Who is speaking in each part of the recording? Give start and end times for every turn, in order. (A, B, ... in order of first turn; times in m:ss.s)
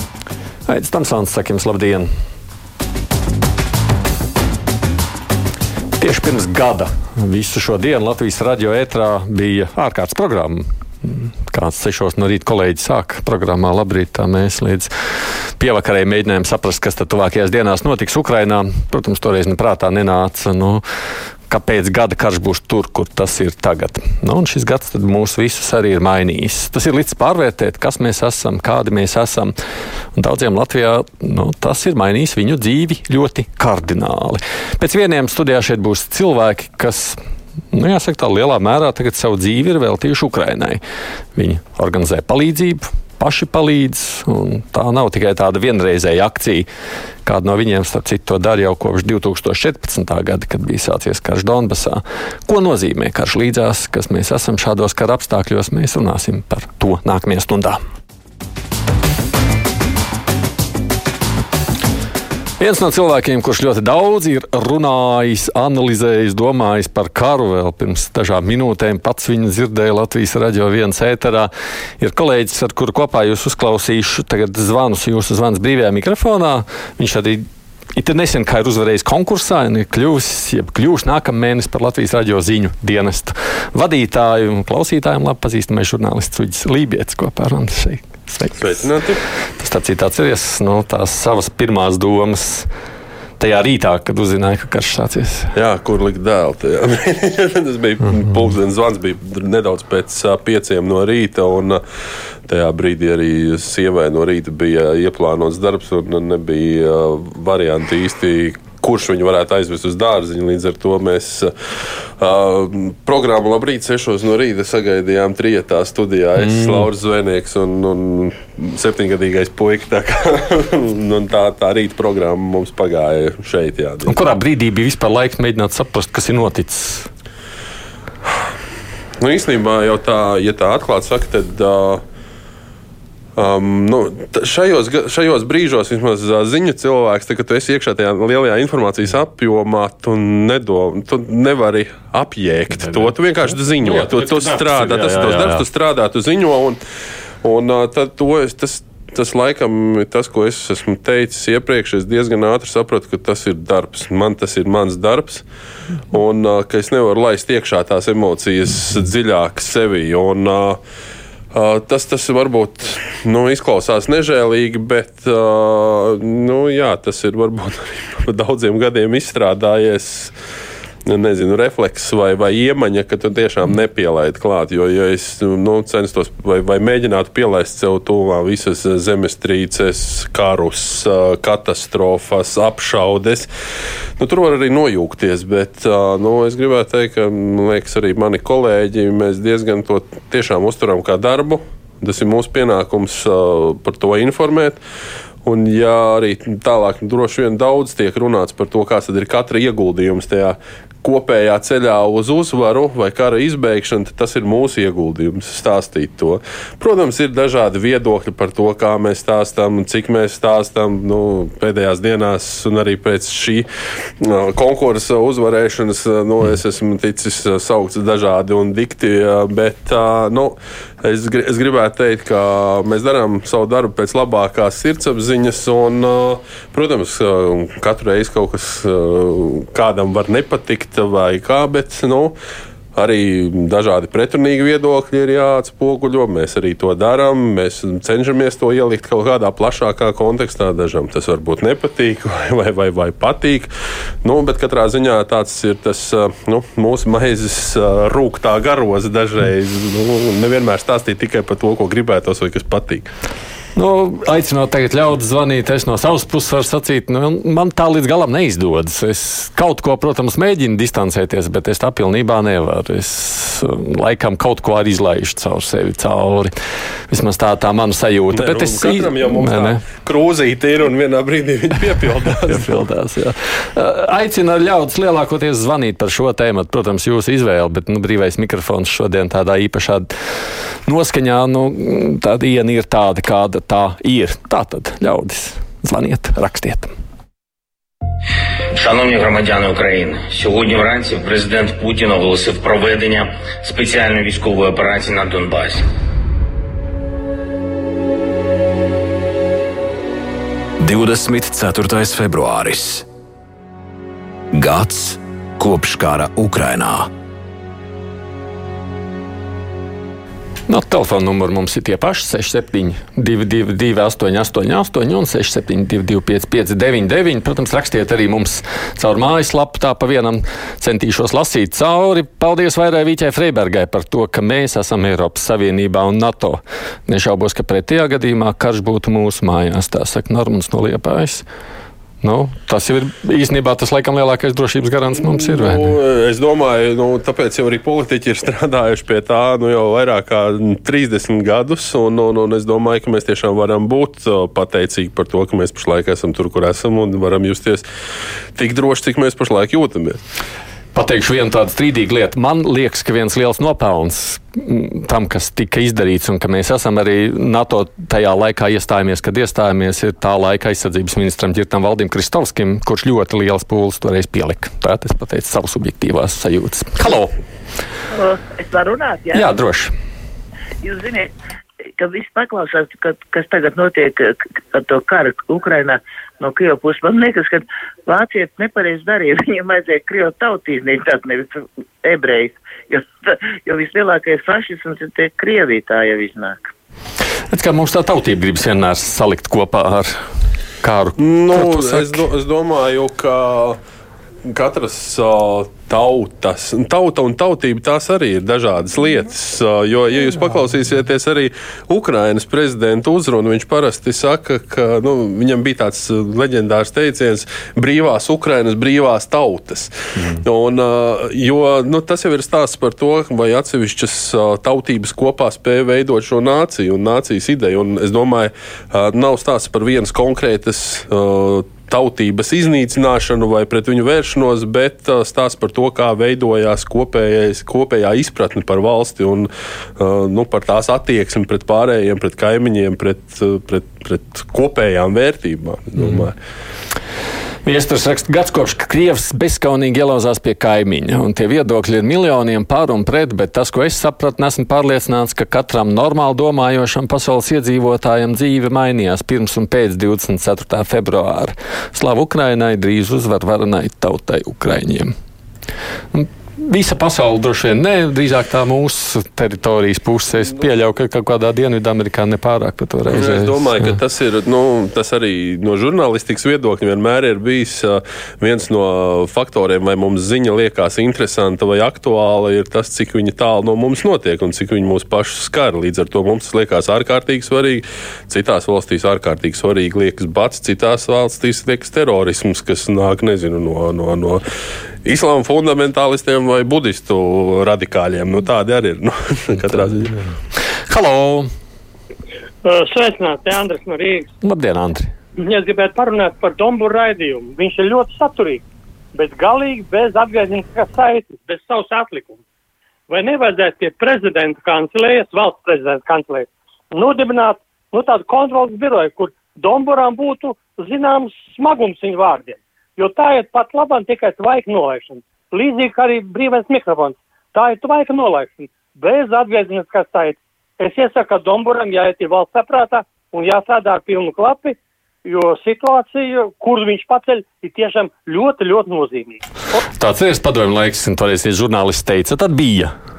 0:00.7-0:02.1 A
0:06.0-0:20.8 A
0:21.5-0:29.6 A
0:30.2-0:37.2 A
0:37.7-0:40.8 A
0:41.4-0:46.7 A
0:47.2-0:57.8 A
1:02.6-1:28.9 A
1:28.6-1:29.2 B
1:29.6-1:32.7 A
1:33.4-1:35.5 A
1:35.5-1:41.8 B
1:42.5-1:51.5 B
1:52.2-2:04.2 B
1:56.4-1:56.9 A
2:04.0-2:07.1 A
2:09.2-2:12.0 B
2:13.4-2:26.8 B
2:22.8-2:23.1 A
2:23.8-2:25.6 A
2:27.4-2:35.5 B
2:36.1-2:40.8 B
2:41.5-2:50.4 B
2:51.0-3:03.5 B
3:04.2-3:14.8 B
3:15.4-3:33.7 B
3:34.2-3:52.4 B
3:53.0-4:03.7 B
4:04.2-4:13.1 B
4:13.8-4:26.6 A
4:27.1-4:29.8 A
4:28.3-4:32.8 B
4:32.5-4:40.2 A
4:40.9-4:46.9 A
4:48.8-4:55.8 C
5:00.8-5:03.1 D
5:04.5-5:07.1 D
5:10.7-5:31.4 A
5:32.2-5:35.9 A
5:35.2-5:47.8 B
5:48.6-5:50.2 B
5:50.9-6:07.4 A
6:08.1-6:09.5 E
6:09.3-6:09.9 A
6:10.8-6:11.3 E
6:12.0-6:26.7 E
6:27.5-6:30.2 A
6:30.8-6:32.2 A
6:31.2-6:33.8 B
6:34.4-7:16.4 B
7:17.6-7:35.1 A
7:36.1-7:44.0 A
7:43.1-8:04.4 B
8:05.0-8:10.2 B
8:10.9-8:11.5 A
8:12.6-8:14.3 F
8:14.4-8:15.1 A
8:15.4-8:18.6 F
8:19.2-8:22.4 F
8:23.1-8:49.4 F
8:50.0-8:52.9 A